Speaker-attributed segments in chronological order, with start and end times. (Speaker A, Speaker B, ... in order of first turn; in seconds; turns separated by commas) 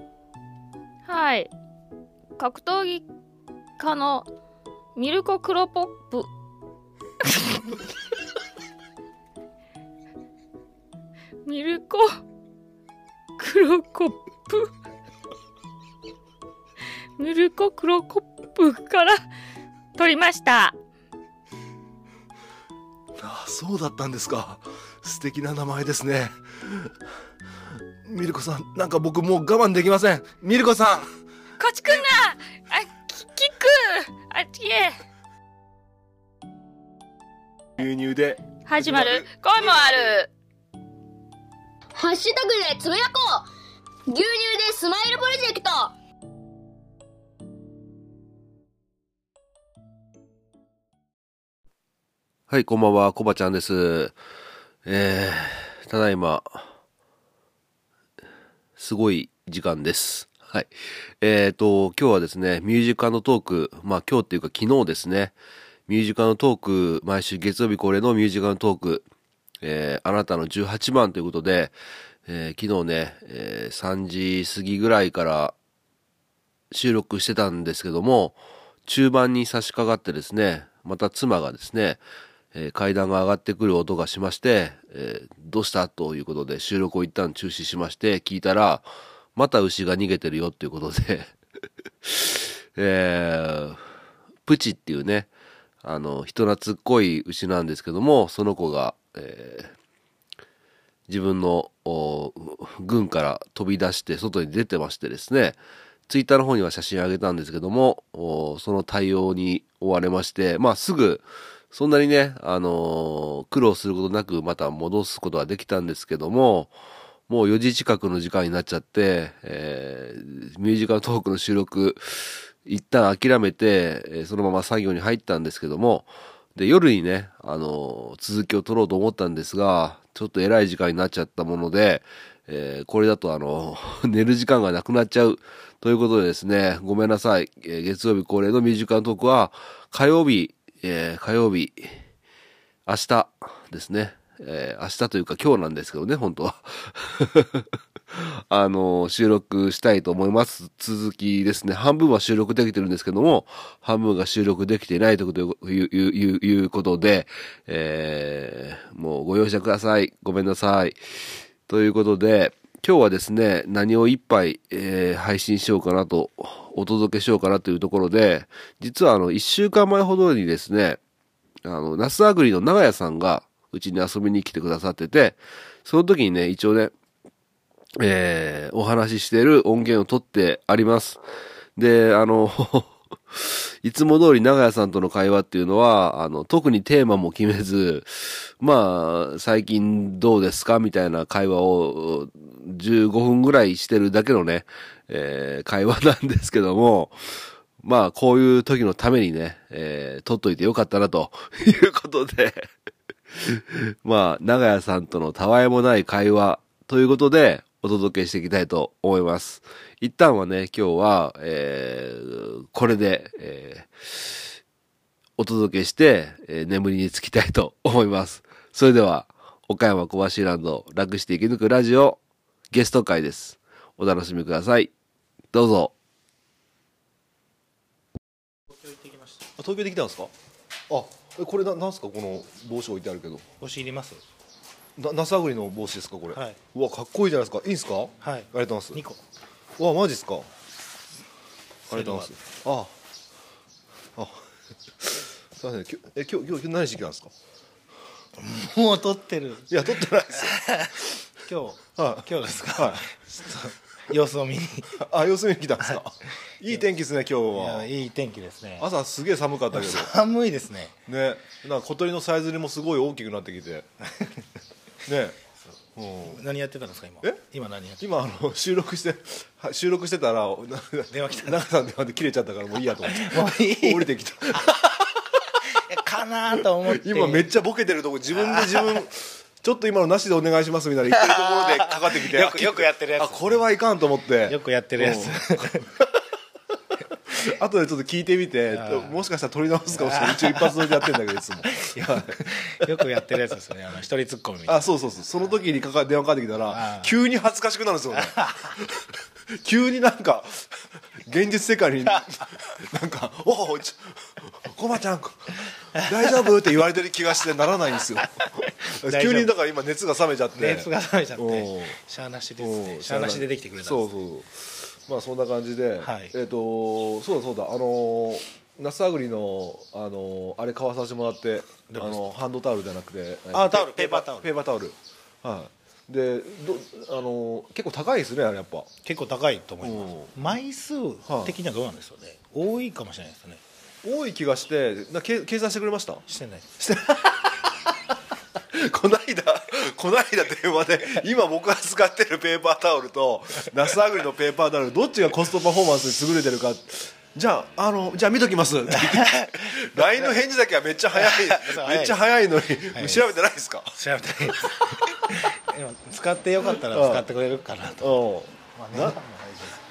Speaker A: 1.0-1.5, Speaker A: 2.4-3.0, Speaker A: 3.8-4.3, Speaker A: 5.0-6.3, Speaker A: 11.4-12.2, Speaker A: 13.4-14.7, Speaker A: 17.2-19.2, Speaker A: 19.9-20.7, Speaker B: 23.2-24.1, Speaker C: 23.4-26.1, Speaker B: 25.2-26.3, Speaker B: 28.1-31.1, Speaker C: 29.1-30.6, Speaker A: 31.6-35.0, Speaker B: 37.8-39.2, Speaker A: 38.6-40.3, Speaker D: 41.9-43.5, Speaker D: 44.1-45.9, Speaker C: 52.5-54.1, Speaker C: 54.8-56.7, Speaker C: 58.8-65.3, Speaker C: 65.9-69.1, Speaker C: 69.6-71.7, Speaker C: 72.2-75.5, Speaker C: 76.7-82.0, Speaker C: 82.5-91.4, Speaker C: 92.0-93.8, Speaker C: 94.5-95.3, Speaker C: 95.8-99.7, Speaker C: 101.1-116.7, Speaker C: 117.3-141.9, Speaker C: 142.8-161.0, Speaker C: 161.7-171.0, Speaker C: 171.6-176.9, Speaker C: 178.0-181.2, Speaker C: 181.8-202.7, Speaker C: 203.3-214.3, Speaker C: 215.4-222.2, Speaker C: 222.7-224.9, Speaker C: 225.5-225.9, Speaker E: 228.7-229.4, Speaker B: 229.6-230.3, Speaker B: 230.9-233.4, Speaker E: 233.6-234.2, Speaker B: 235.0-239.0, Speaker E: 236.3-236.6, Speaker E: 238.2-239.2, Speaker B: 239.8-240.4, Speaker B: 241.9-242.9, Speaker E: 241.9-242.3, Speaker B: 245.1-247.3, Speaker E: 248.4-249.8, Speaker B: 249.7-250.6, Speaker E: 250.4-255.0, Speaker B: 252.0-253.1, Speaker B: 255.0-257.9, Speaker E: 257.5-258.9, Speaker B: 258.8-260.1, Speaker E: 259.7-261.0, Speaker B: 261.1-263.8, Speaker B: 265.1-265.4, Speaker B: 266.0-266.4, Speaker E: 266.2-268.0, Speaker B: 268.0-275.1, Speaker E: 271.1-271.7, Speaker E: 273.0-274.7, Speaker E: 275.7-277.5, Speaker B: 276.9-286.1, Speaker E: 278.4-279.0, Speaker E: 281.3-283.6, Speaker E: 284.4-285.9, Speaker B: 287.3-292.5, Speaker E: 288.7-289.1, Speaker E: 290.0-294.9, Speaker B: 294.7-298.9, Speaker E: 296.7-297.1, Speaker B: 299.6-300.6, Speaker B: 301.2-312.0, Speaker E: 308.4-309.5, Speaker E: 310.5-314.1, Speaker B: 312.6-314.5, Speaker B: 315.1-328.9, Speaker E: 316.0-316.3, Speaker E: 321.9-322.2, Speaker E: 323.5-324.5, Speaker E: 329.0-333.6, Speaker B: 329.8-330.3, Speaker B: 331.3-331.6, Speaker B: 334.0-336.2, Speaker E: 336.3-336.7, Speaker B: 336.8-337.9, Speaker B: 338.7-353.9, Speaker E: 348.9-350.3, Speaker E: 351.1-352.2, Speaker E: 352.9-353.3, Speaker E: 353.9-359.8, Speaker B: 356.9-357.3, Speaker B: 358.0-359.2